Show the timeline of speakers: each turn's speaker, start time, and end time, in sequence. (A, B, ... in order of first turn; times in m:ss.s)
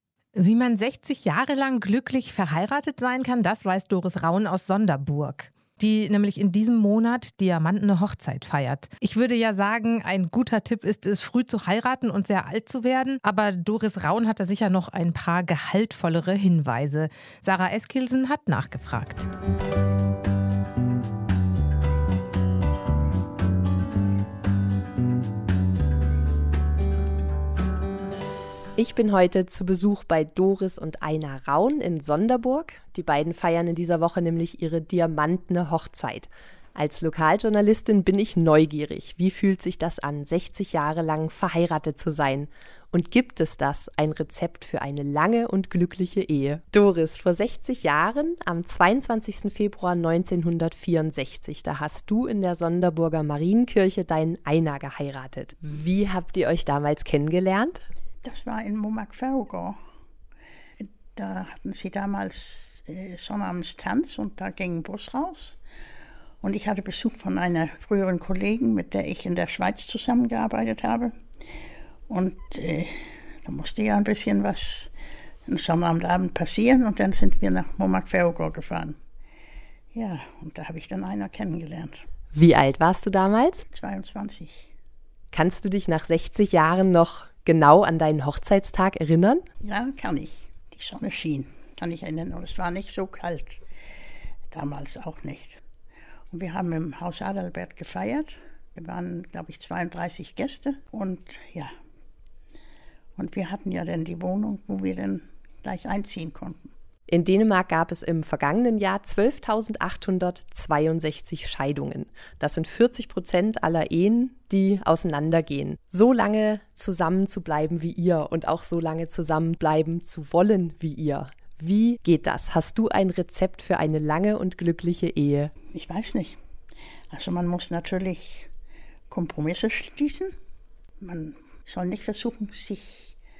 0:00.4-0:19.3 A
0:28.8-0:57.9 B
0:58.2-0:59.8 C
1:00.8-1:05.6 C
1:06.4-1:11.1 C
1:12.1-1:14.9 C
1:15.5-1:19.0 C
1:19.9-1:22.0 C
1:22.3-1:23.6 B
1:23.7-1:24.7 C
1:25.3-1:29.5 B
1:29.6-1:33.6 C
1:34.5-1:35.6 C
1:36.3-1:41.7 C
1:43.2-1:46.7 C
1:47.1-2:05.5 B
2:05.7-2:06.4 C
2:07.1-2:08.5 C
2:09.1-2:10.3 C
2:11.0-2:13.2 C